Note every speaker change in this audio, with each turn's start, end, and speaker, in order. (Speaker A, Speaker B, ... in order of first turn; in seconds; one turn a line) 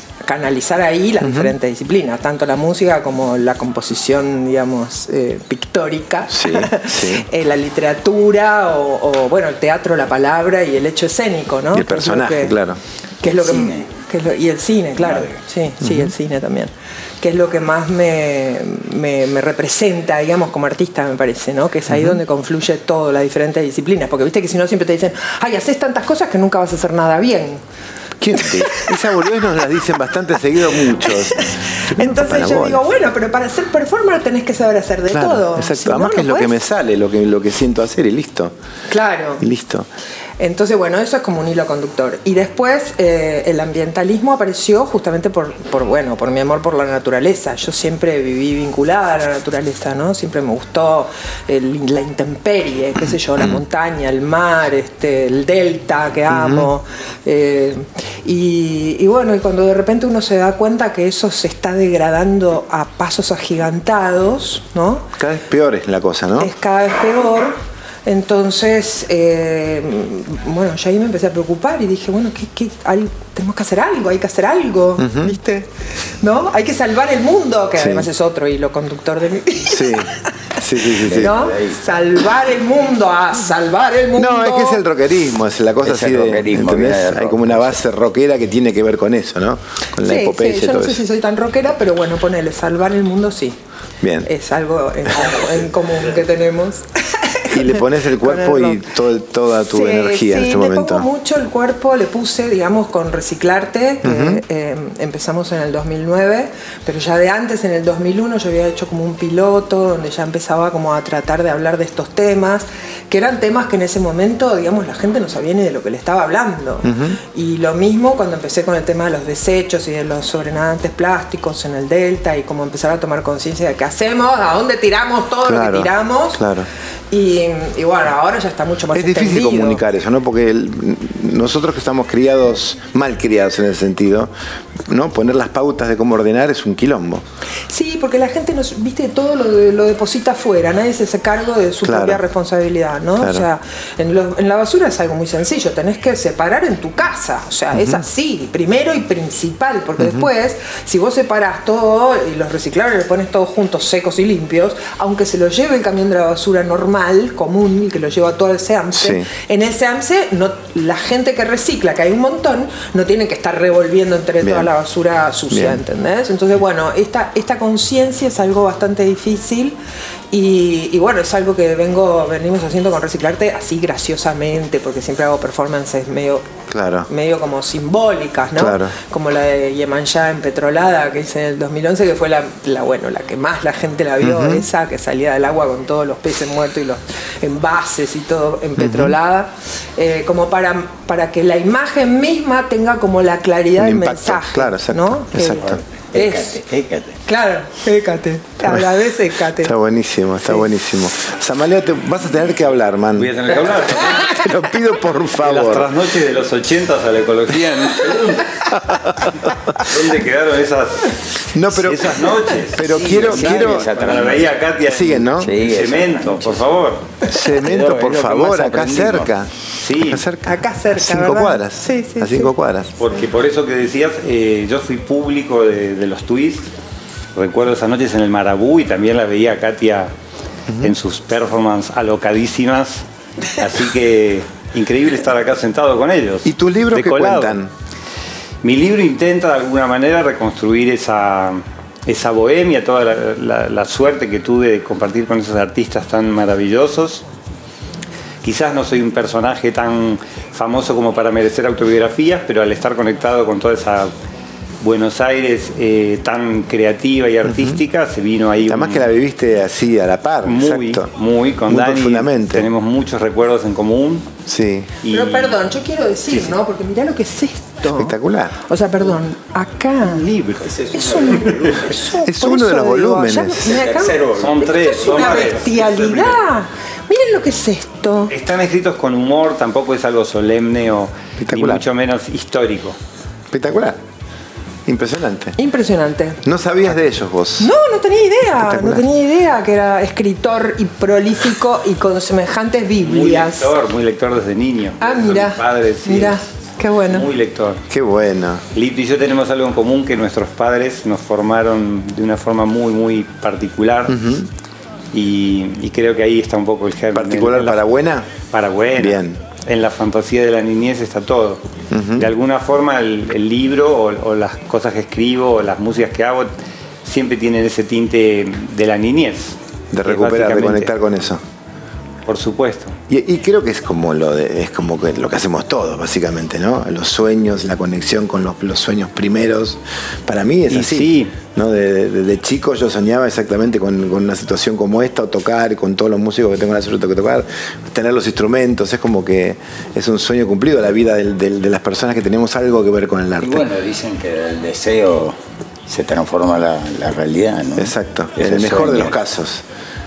Speaker A: 0.2-12.6
Speaker B: 1.2-1.5
Speaker B: 6.3-7.3
Speaker B: 11.7-12.8
Speaker A: 13.2-27.6
Speaker C: 13.3-13.9
Speaker C: 15.0-15.4
Speaker B: 15.8-16.1
Speaker B: 21.9-22.2
Speaker B: 28.2-32.8
Speaker A: 28.4-29.0
Speaker A: 31.0-36.6
Speaker B: 35.1-38.5
Speaker A: 38.9-39.4
Speaker B: 39.4-39.9
Speaker A: 40.4-65.1
Speaker B: 56.3-56.7
Speaker B: 65.2-66.5
Speaker A: 66.4-80.6
Speaker B: 75.0-75.4
Speaker B: 77.8-78.1
Speaker B: 79.7-81.4
Speaker C: 81.0-81.8
Speaker A: 81.1-84.8
Speaker B: 84.2-91.0
Speaker C: 85.8-87.8
Speaker A: 90.0-93.6
Speaker B: 94.0-94.3
Speaker A: 94.2-98.9
Speaker B: 97.5-101.1
Speaker A: 99.7-126.5
Speaker B: 104.0-104.4
Speaker B: 116.8-117.2
Speaker B: 125.5-126.7
Speaker A: 127.1-129.8
Speaker B: 128.9-134.3
Speaker B: 134.9-137.2
Speaker A: 137.7-169.8
Speaker B: 141.8-142.2
Speaker B: 143.2-143.5
Speaker B: 147.7-148.0
Speaker B: 150.0-150.3
Speaker B: 158.9-159.3
Speaker B: 164.4-164.7
Speaker B: 165.5-165.8
Speaker A: 170.3-176.5
Speaker B: 176.7-177.1
Speaker A: 177.1-196.6
Speaker B: 178.6-178.9
Speaker B: 184.2-184.7
Speaker B: 188.8-189.2
Speaker B: 193.8-195.8
Speaker C: 195.6-197.2
Speaker A: 197.3-199.8
Speaker B: 198.7-198.9
Speaker B: 199.6-205.9
Speaker D: 203.2-204.4
Speaker D: 205.4-217.1
Speaker B: 208.6-209.9
Speaker B: 211.5-214.1
Speaker C: 212.9-214.5
Speaker B: 214.8-215.6
Speaker C: 215.4-216.7
Speaker B: 217.3-222.9
Speaker C: 217.3-219.3
Speaker D: 219.8-220.3
Speaker A: 220.4-222.5
Speaker D: 223.0-226.7
Speaker D: 227.3-230.1
Speaker B: 230.7-230.9
Speaker D: 230.8-237.6
Speaker B: 236.4-237.7
Speaker D: 238.6-247.2
Speaker D: 248.4-254.1
Speaker D: 254.8-259.1
Speaker B: 257.4-257.8
Speaker B: 258.7-261.1
Speaker D: 260.4-264.3
Speaker B: 261.7-262.7
Speaker B: 264.5-264.9
Speaker D: 265.0-265.6
Speaker A: 265.1-270.2
Speaker B: 267.9-268.6
Speaker D: 270.0-271.8
Speaker C: 270.6-272.1
Speaker A: 270.9-278.3
Speaker B: 272.2-273.8
Speaker C: 273.6-275.8
Speaker D: 274.4-276.4
Speaker D: 278.3-283.0
Speaker B: 281.4-281.9
Speaker B: 283.5-284.0
Speaker B: 284.9-285.6
Speaker A: 285.6-286.4
Speaker B: 286.4-287.7
Speaker A: 287.6-293.7
Speaker B: 288.6-289.1
Speaker D: 293.0-296.4
Speaker A: 295.0-297.3
Speaker D: 297.1-297.8
Speaker B: 297.9-298.6
Speaker D: 298.7-304.2
Speaker B: 304.1-304.5
Speaker D: 305.1-307.9
Speaker B: 307.1-308.3
Speaker D: 308.5-311.6
Speaker B: 309.0-309.4
Speaker B: 311.9-312.3
Speaker D: 312.2-316.5
Speaker D: 317.1-320.9
Speaker B: 319.9-321.4
Speaker D: 322.3-323.0
Speaker B: 323.1-343.7
Speaker D: 330.7-331.3
Speaker C: 343.4-349.1
Speaker B: 347.8-349.6